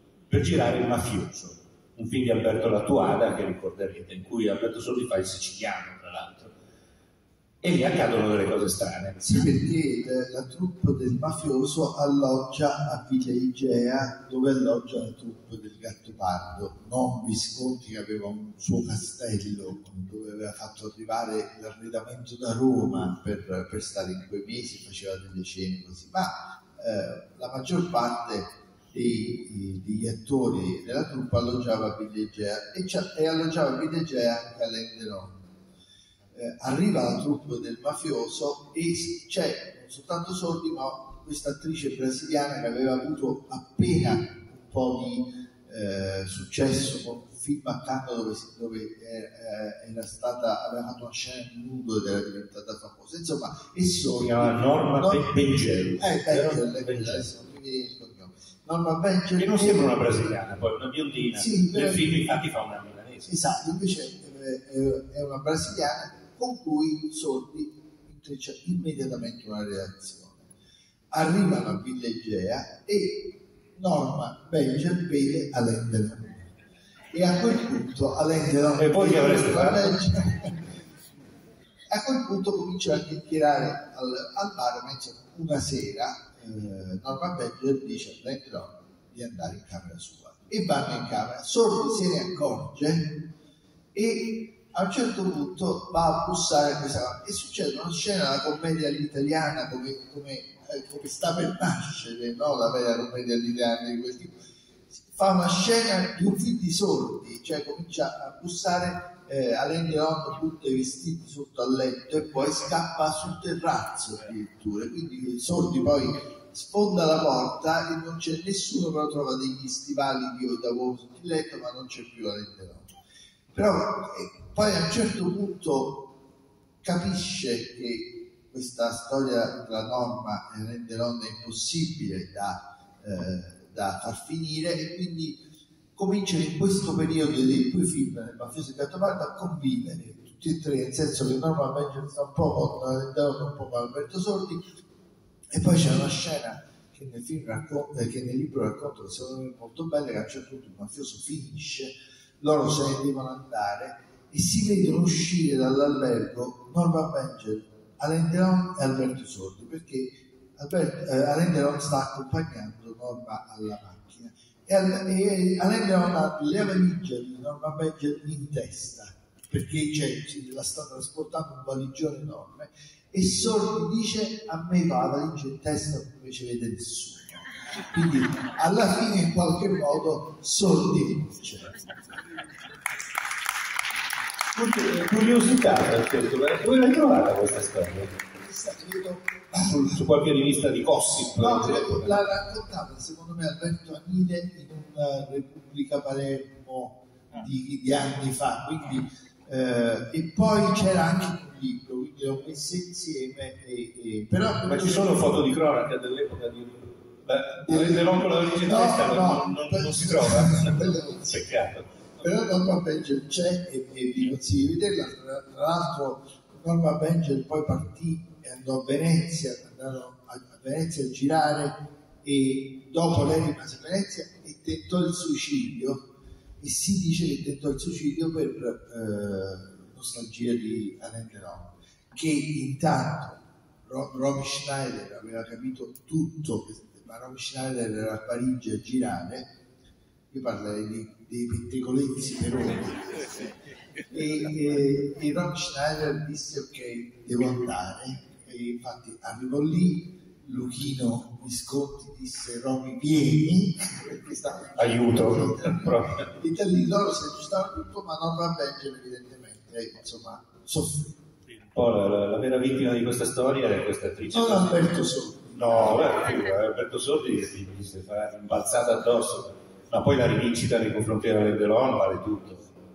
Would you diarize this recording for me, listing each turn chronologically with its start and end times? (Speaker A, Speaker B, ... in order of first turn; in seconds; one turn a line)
Speaker A: 0.3-6.5
Speaker A: 7.6-9.5
Speaker B: 9.2-35.4
Speaker B: 36.3-60.0
Speaker A: 54.2-57.3
Speaker A: 59.4-63.3
Speaker B: 61.3-62.3
Speaker B: 63.3-70.5
Speaker B: 71.1-76.5
Speaker B: 77.1-80.5
Speaker A: 78.8-80.0
Speaker B: 81.9-93.3
Speaker B: 93.9-104.3
Speaker B: 104.9-122.9
Speaker B: 123.5-126.1
Speaker B: 126.8-135.4
Speaker B: 136.0-144.6
Speaker B: 145.5-181.9
Speaker A: 184.6-188.2
Speaker B: 188.4-190.1
Speaker A: 189.7-192.2
Speaker B: 191.3-205.5
Speaker A: 204.7-211.9
Speaker B: 207.7-211.5
Speaker B: 212.2-226.1
Speaker B: 226.6-239.5
Speaker B: 240.3-243.6
Speaker B: 244.1-261.2
Speaker A: 254.8-256.2
Speaker A: 261.5-264.9
Speaker B: 264.3-266.0
Speaker A: 265.6-272.7